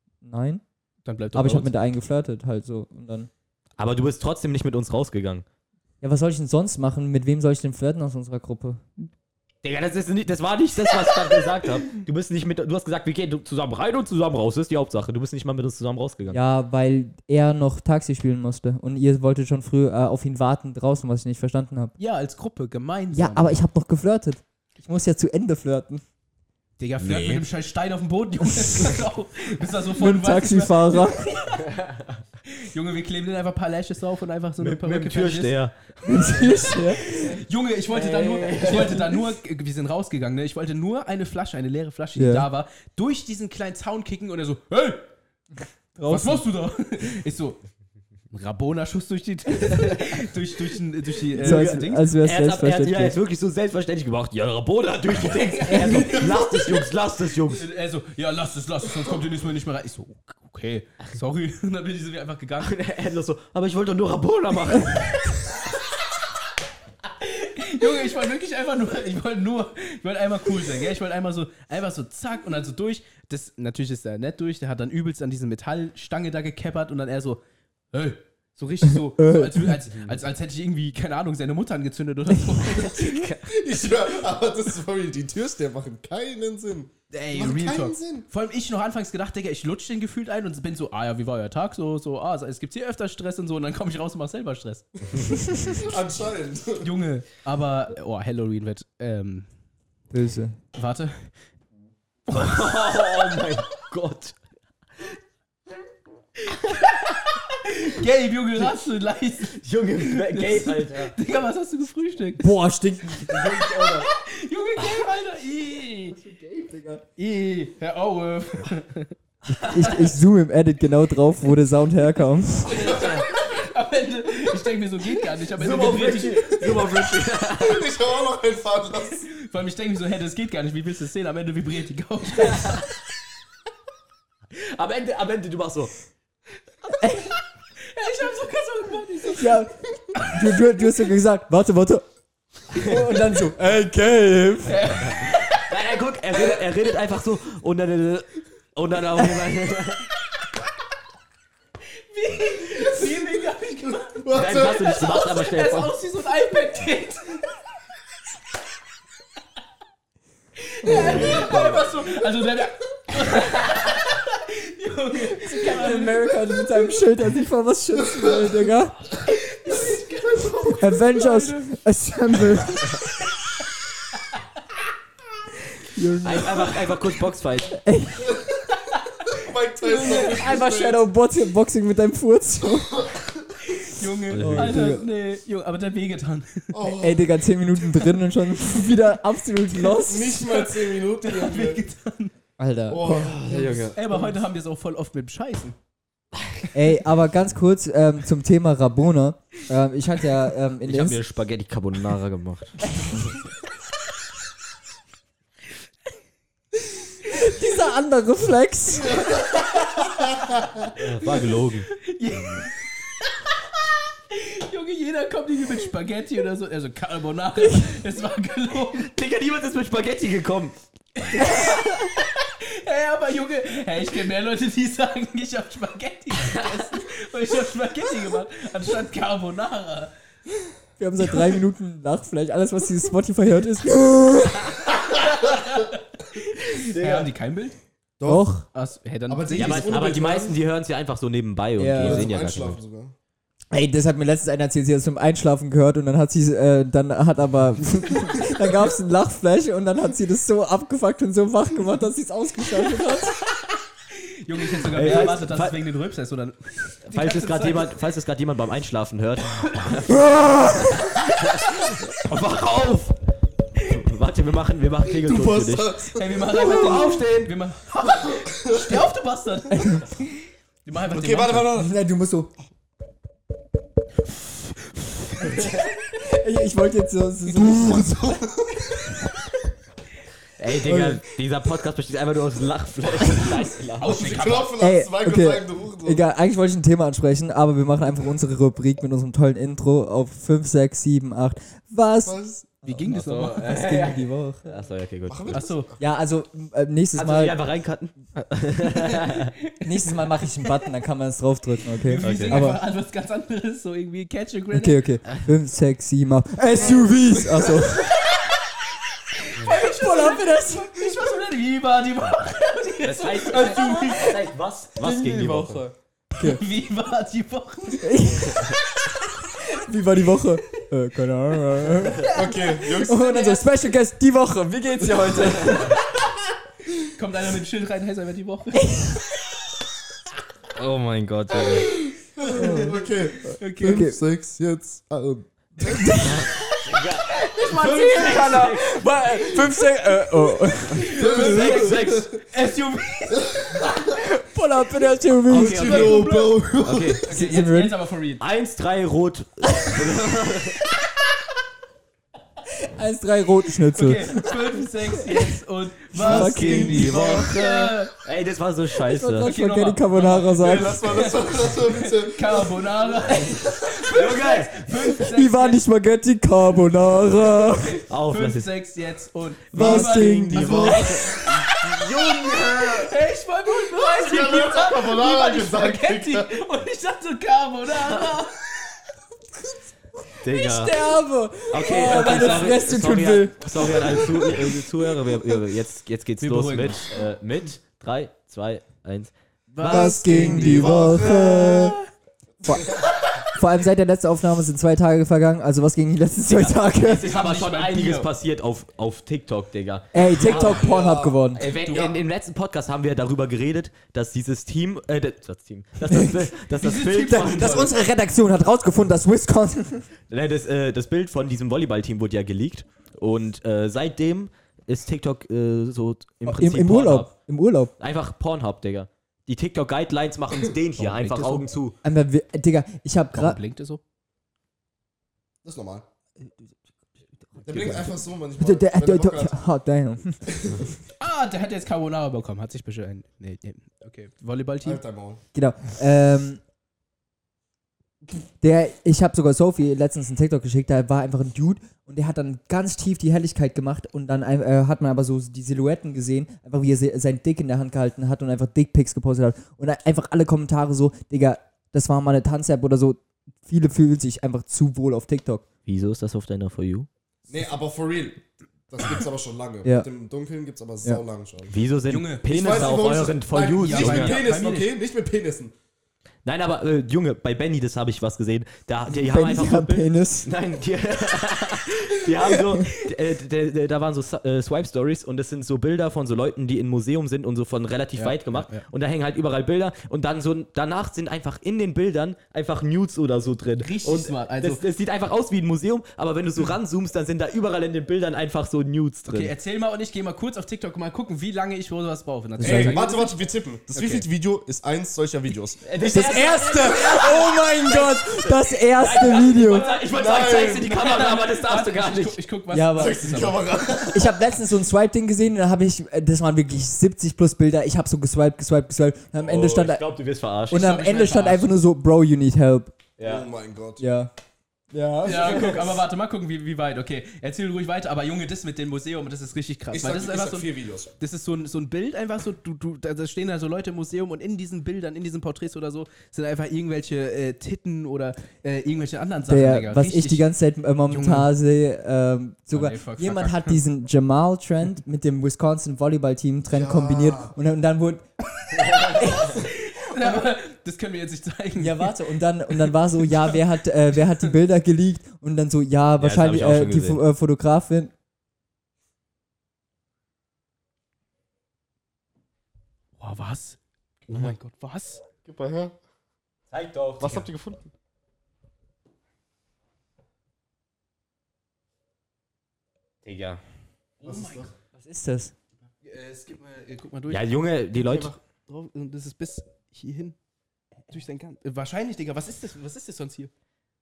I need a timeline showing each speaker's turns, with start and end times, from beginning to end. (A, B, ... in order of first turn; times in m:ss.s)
0:00.2-0:00.6 A
0:01.0-0:01.7 B
0:01.3-0:03.3 A
0:03.8-0:05.4 C
0:06.0-0:08.8 A
0:09.6-0:16.4 C
0:16.3-0:21.9 A
0:22.0-0:23.6 B
0:23.1-0:26.0 A
0:26.8-0:31.7 B
0:27.0-0:27.4 C
0:30.0-0:31.3 A
0:31.7-0:32.1 C
0:32.5-0:35.5 B
0:34.6-0:36.4 C
0:36.0-0:37.4 A
0:37.0-0:45.0 B
0:37.9-0:39.2 C
0:42.2-0:42.5 A
0:46.0-0:46.4 A
0:46.1-0:47.6 B
0:48.3-0:52.1 B
0:51.4-0:57.6 C
0:51.4-0:53.2 A
0:55.3-0:56.5 B
0:55.6-0:56.4 A
0:57.5-1:02.8 B
1:02.6-1:05.1 C
1:07.2-1:17.4 B
1:17.9-1:23.2 B
1:19.1-1:19.8 A
1:22.6-1:23.5 C
1:23.5-1:28.3 D
1:27.1-1:34.8 B
1:35.1-1:36.9 D
1:36.8-1:39.5 B
1:40.1-1:40.6 A
1:40.8-1:41.3 B
1:42.3-1:44.4 C
1:46.5-1:47.0 C
1:47.6-1:52.5 B
1:49.5-1:51.2 C
1:52.4-1:54.1 A
1:53.3-1:56.2 B
1:56.2-1:57.0 A
1:57.2-1:59.2 B
1:59.5-2:02.9 A
2:02.7-2:06.8 B
2:02.7-2:03.2 D
2:05.6-2:07.9 C
2:07.4-2:09.3 D
2:09.0-2:12.8 B
2:12.6-2:12.8 C
2:14.5-2:15.9 C
2:17.0-2:17.3 A
2:17.8-2:19.6 B
2:19.3-2:22.0 A
2:20.2-2:20.6 B
2:22.7-2:25.0 A
2:22.9-2:23.4 D
2:24.7-2:25.7 B
2:25.1-2:30.1 C
2:31.9-2:37.5 B
2:33.8-2:34.8 D
2:34.3-2:35.9 C
2:40.6-2:46.8 B
2:40.9-2:41.8 D
2:45.2-2:49.0 A
2:49.2-2:51.7 B
2:50.8-2:53.0 A
2:55.9-2:57.0 A
2:56.2-2:57.8 C
2:57.7-2:58.4 A
2:58.3-2:58.5 D
2:59.2-3:01.0 D
2:59.8-3:03.1 A
3:02.8-3:03.3 D
3:03.7-3:06.8 B
3:04.3-3:05.0 C
3:04.4-3:05.0 A
3:06.7-3:07.4 D
3:07.0-3:10.5 A
3:10.0-3:11.8 D
3:10.4-3:12.3 B
3:12.6-3:13.4 A
3:12.9-3:14.0 D
3:13.0-3:14.0 C
3:13.9-3:15.8 B
3:16.7-3:21.2 A
3:20.8-3:23.2 C
3:27.2-3:29.4 A
3:30.8-3:32.0 C
3:31.9-3:32.9 B
3:33.5-3:39.1 B
3:39.0-3:40.8 C
3:41.2-3:50.1 B
3:51.0-3:54.8 A
3:55.2-3:57.8 B
3:56.9-3:57.3 C
3:58.2-3:58.5 D
3:58.3-3:58.6 A
3:58.7-4:00.0 B
3:59.3-4:00.6 D
3:59.5-4:02.8 C
4:01.8-4:02.3 A
4:02.0-4:03.2 D
4:03.7-4:13.4 A
4:14.1-4:17.9 B
4:14.9-4:15.8 C
4:17.1-4:20.3 C
4:19.8-4:20.0 B
4:20.3-4:20.9 A
4:21.2-4:23.2 C
4:23.9-4:26.0 C
4:25.1-4:26.5 D
4:26.2-4:30.0 B
4:26.6-4:27.5 C
4:28.3-4:29.1 D
4:29.7-4:30.1 A
4:30.8-4:31.7 B
4:31.1-4:32.0 D
4:31.7-4:32.5 A
4:35.4-4:38.2 A
4:37.6-4:39.0 D
4:40.6-4:44.4 C
4:40.8-4:41.2 A
4:44.0-4:44.8 B
4:44.0-4:46.2 D
4:44.8-4:54.6 A
4:52.2-4:52.7 D
4:52.8-4:54.1 B
4:53.1-4:55.7 C
4:55.3-4:56.1 D
4:55.5-4:55.9 B
4:56.0-4:57.6 A
4:57.1-4:59.5 C
4:59.2-5:00.7 B
4:59.8-5:02.8 A
5:02.0-5:05.0 B
5:02.2-5:02.6 C
5:04.7-5:08.2 A
5:06.7-5:07.9 D
5:09.4-5:14.3 B
5:09.6-5:11.1 A
5:13.0-5:15.8 C
5:13.5-5:14.4 A
5:15.0-5:16.6 A
5:16.4-5:18.2 B
5:18.0-5:18.8 A
5:19.7-5:22.3 A
5:22.2-5:23.6 B
5:22.2-5:23.4 D
5:23.0-5:26.0 A
5:25.1-5:25.9 D
5:25.4-5:25.8 C
5:27.2-5:29.0 B
5:28.8-5:29.2 A
5:30.8-5:32.0 C
5:31.8-5:36.5 D
5:32.6-5:33.0 A
5:32.6-5:32.9 B
5:33.6-5:34.1 B
5:33.8-5:34.2 A
5:35.8-5:36.8 A
5:36.2-5:39.4 C
5:37.3-5:39.4 B
5:37.7-5:41.1 A
5:37.8-5:38.4 D
5:40.9-5:43.8 B
5:41.0-5:42.4 C
5:41.1-5:42.4 D
5:44.1-5:46.2 A
5:45.5-5:47.2 C
5:45.5-5:47.2 D
5:45.8-5:46.6 B
5:47.2-5:48.4 B
5:47.2-5:48.0 A
5:48.4-5:50.8 C
5:52.9-5:55.5 A
5:54.0-5:58.1 B
5:56.2-5:57.1 A
5:56.2-5:57.5 D
5:56.3-5:59.5 C
5:59.0-6:01.3 A
5:59.4-6:05.8 B
6:00.5-6:02.8 D
6:04.1-6:04.9 C
6:05.2-6:08.0 A
6:07.5-6:18.6 B
6:08.1-6:08.7 C
6:09.7-6:13.1 C
6:09.7-6:11.1 A
6:10.3-6:11.3 D
6:14.0-6:16.6 D
6:18.0-6:18.3 C
6:20.4-6:21.0 C
6:20.5-6:24.8 A
6:21.7-6:29.3 C
6:21.9-6:22.8 B
6:26.4-6:27.1 B
6:29.7-6:31.0 B
6:29.8-6:32.0 A
6:29.8-6:32.0 D
6:32.6-6:37.3 A
6:36.5-6:41.0 C
6:37.2-6:38.3 B
6:40.1-6:41.6 A
6:40.4-6:41.4 D
6:41.5-6:47.9 C
6:41.8-6:42.2 B
6:46.1-6:46.4 A
6:46.8-6:47.9 B
6:47.3-6:50.1 A
6:50.3-6:57.3 C
6:56.4-6:57.9 A
6:58.0-7:02.0 C
7:01.0-7:01.7 B
7:02.0-7:03.6 A
7:03.3-7:04.0 B
7:05.6-7:06.0 D
7:06.4-7:06.8 A
7:07.6-7:09.6 D
7:07.7-7:10.4 A
7:10.5-7:10.8 D
7:11.2-7:15.0 B
7:14.8-7:15.4 D
7:15.5-7:16.6 A
7:18.6-7:35.6 A
7:35.9-7:37.1 C
7:37.5-7:41.7 D
7:41.7-7:44.4 C
7:42.1-7:43.0 B
7:42.5-7:45.8 D
7:43.8-7:44.9 B
7:46.4-8:09.5 C
7:49.1-7:50.5 A
7:58.2-7:58.8 B
8:03.8-8:04.8 B
8:09.3-8:13.4 B
8:12.6-8:13.0 A
8:12.6-8:15.8 D
8:13.9-8:14.2 B
8:15.8-8:22.4 C
8:16.1-8:19.9 A
8:20.1-8:20.9 D
8:20.8-8:23.8 B
8:22.7-8:23.4 A
8:23.0-8:24.4 D
8:24.1-8:30.1 A
8:29.4-8:30.9 C
8:30.7-8:33.0 A
8:30.7-8:31.8 B
8:33.2-8:33.5 C
8:33.2-8:34.0 D
8:34.0-8:34.3 A
8:34.9-8:35.9 A
8:35.2-8:50.5 B
8:39.9-8:41.1 D
8:49.5-8:59.7 A
8:51.1-8:51.5 B
8:52.7-8:53.8 B
8:56.7-8:57.5 D
8:59.3-9:02.2 B
9:01.8-9:08.1 A
9:02.7-9:03.5 B
9:06.2-9:07.2 C
9:13.2-9:15.2 B
9:15.4-9:16.0 D
9:16.7-9:17.5 C
9:17.2-9:17.8 D
9:23.2-9:23.6 C
9:24.2-9:24.7 B
9:24.2-9:24.7 D
9:25.0-9:25.5 A
9:26.0-9:27.4 B
9:27.3-9:28.3 C
9:28.0-9:30.4 B
9:31.1-9:33.5 B